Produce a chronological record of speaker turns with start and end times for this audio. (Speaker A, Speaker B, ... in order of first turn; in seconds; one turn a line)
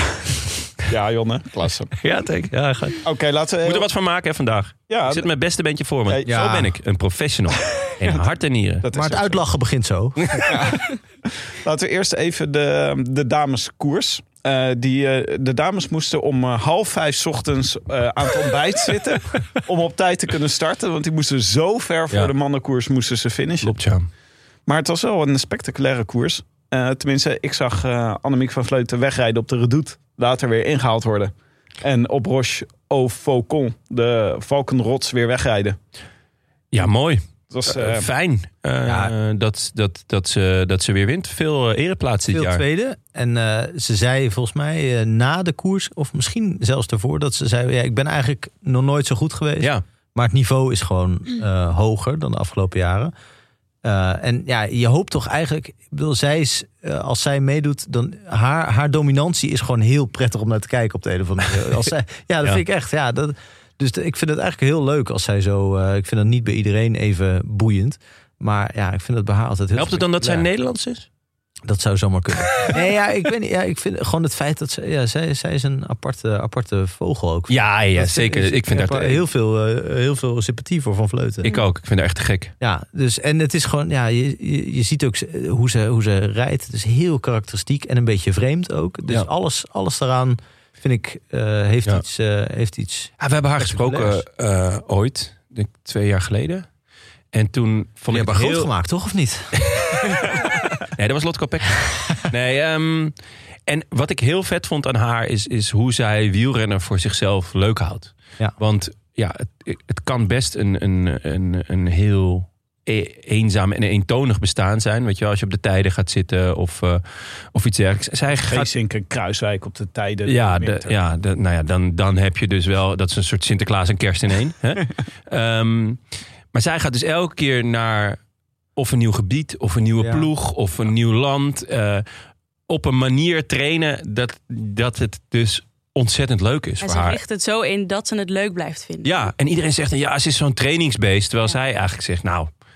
Speaker A: 0.9-1.9
Speaker B: 2.0-3.0
Speaker A: 3.0-3.9
Speaker B: 3.6-8.8
Speaker A: 4.9-5.3
Speaker A: 6.1-6.5
Speaker C: 6.2-6.7
Speaker A: 7.7-8.2
Speaker A: 8.8-9.4
Speaker C: 8.9-10.4
Speaker A: 10.4-23.7
Speaker B: 23.6-24.1
Speaker A: 24.6-35.8
Speaker B: 36.7-42.6
Speaker A: 37.5-38.1
Speaker C: 38.8-39.1
Speaker C: 42.3-53.1
Speaker C: 53.8-70.5
Speaker B: 69.7-71.1
Speaker C: 71.7-81.5
Speaker B: 72.4-72.8
Speaker B: 77.5-79.2
Speaker B: 81.4-82.5
Speaker C: 82.6-94.2
Speaker B: 93.2-96.7
Speaker B: 97.3-98.7
Speaker C: 98.1-99.8
Speaker B: 99.6-99.9
Speaker B: 101.0-103.1
Speaker B: 103.7-118.7
Speaker A: 118.5-120.9
Speaker B: 120.2-128.2
Speaker B: 128.8-132.1
Speaker C: 130.0-130.3
Speaker B: 132.7-137.2
Speaker D: 136.8-139.2
Speaker B: 139.0-142.5